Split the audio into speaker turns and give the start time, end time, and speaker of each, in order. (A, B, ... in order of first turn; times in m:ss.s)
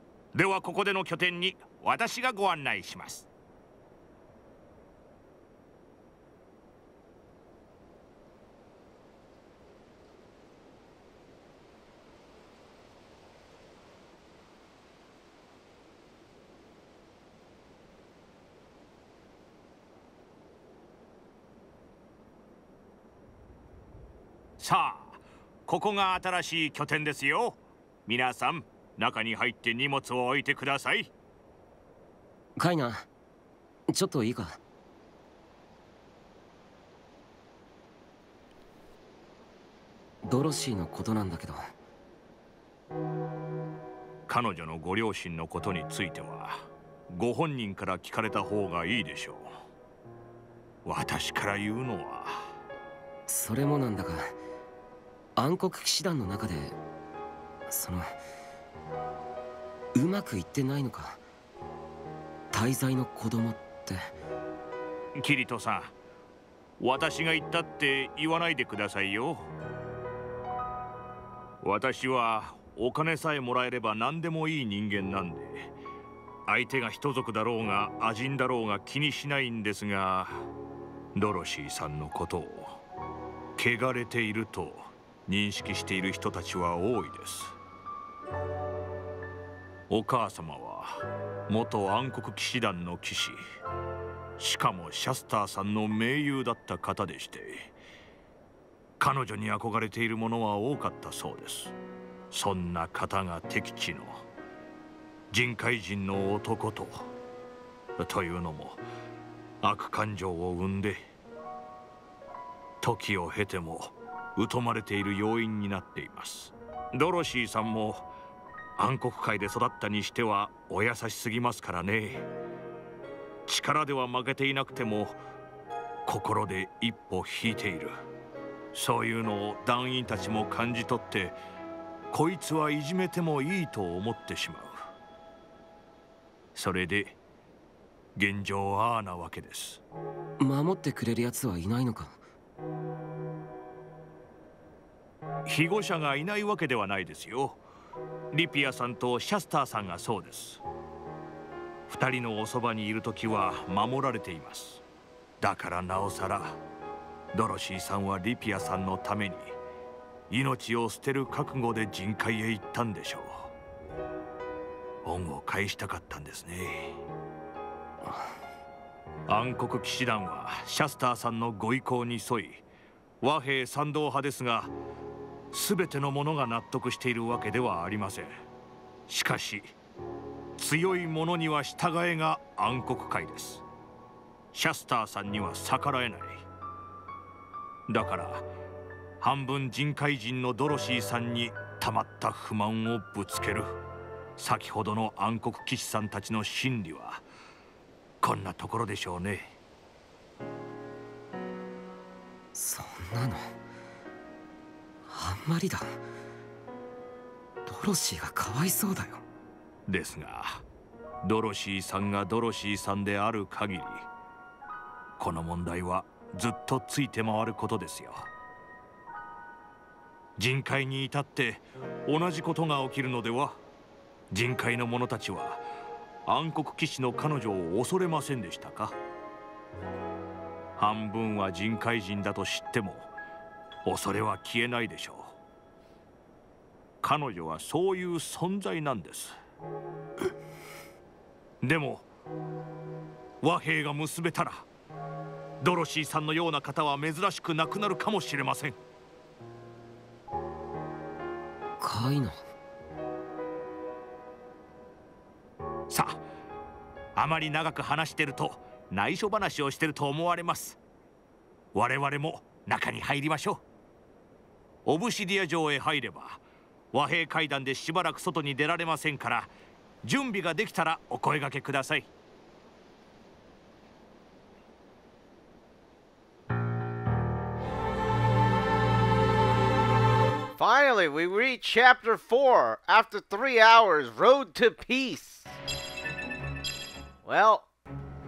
0:00.3-0:03.3 A
0:24.6-0:31.1 A
0:32.6-0:33.1 B
0:33.9-0:34.6 B
0:40.2-0:41.7 B
0:44.3-0:49.5 A
0:50.8-0:52.4 A
0:53.3-0:54.4 B
0:55.4-0:56.8 B
0:57.7-0:58.1 B
1:00.0-1:01.2 B
1:02.5-1:04.0 B
1:05.2-1:06.0 A
1:06.8-1:09.5 A
1:11.6-1:15.7 A
1:16.5-1:20.5 A
1:21.1-1:22.8 A
1:23.6-1:27.6 A
1:29.9-1:33.4 A
1:34.4-1:37.7 A
1:39.0-1:41.8 A
1:42.3-1:44.2 A
1:45.3-1:47.1 A
1:48.0-1:48.8 A
1:49.6-1:51.0 A
1:52.8-1:58.1 A
1:58.8-2:02.3 A
2:03.5-2:05.2 A
2:06.1-2:07.9 A
2:08.7-2:11.4 A
2:12.1-2:14.8 A
2:16.6-2:17.2 A
2:18.2-2:19.8 A
2:20.4-2:22.2 B
2:25.5-2:27.6 A
2:28.3-2:30.6 A
2:31.9-2:34.8 A
2:35.4-2:36.6 A
2:37.3-2:39.6 A
2:40.3-2:43.5 A
2:45.0-2:47.0 A
2:49.3-2:52.6 A
2:53.2-2:54.7 A
2:55.5-2:58.3 A
2:59.1-2:59.7 A
3:00.6-3:03.6 A
3:04.5-3:06.4 A
3:07.9-3:08.5 A
3:09.2-3:13.7 A
3:14.4-3:17.2 A
3:18.2-3:19.6 A
3:22.5-3:23.5 B
3:25.1-3:26.0 B
3:27.7-3:29.2 B
3:29.9-3:30.6 A
3:31.2-3:34.0 A
3:35.2-3:38.3 A
3:40.4-3:43.6 A
3:44.3-3:45.6 A
3:46.3-3:49.0 A
3:50.8-3:53.1 A
3:53.8-3:55.3 A
3:57.0-3:59.4 A
4:01.6-4:02.1 A
4:03.4-4:04.7 A
4:05.6-4:08.8 A
4:11.8-4:12.4 B
4:15.9-4:16.2 A
4:17.2-4:20.8 A
4:21.7-4:23.6 A
4:24.9-4:26.4 A
4:26.9-4:29.5 A
4:30.0-4:32.1 A
4:40.6-4:45.6 C
4:47.2-4:47.7 C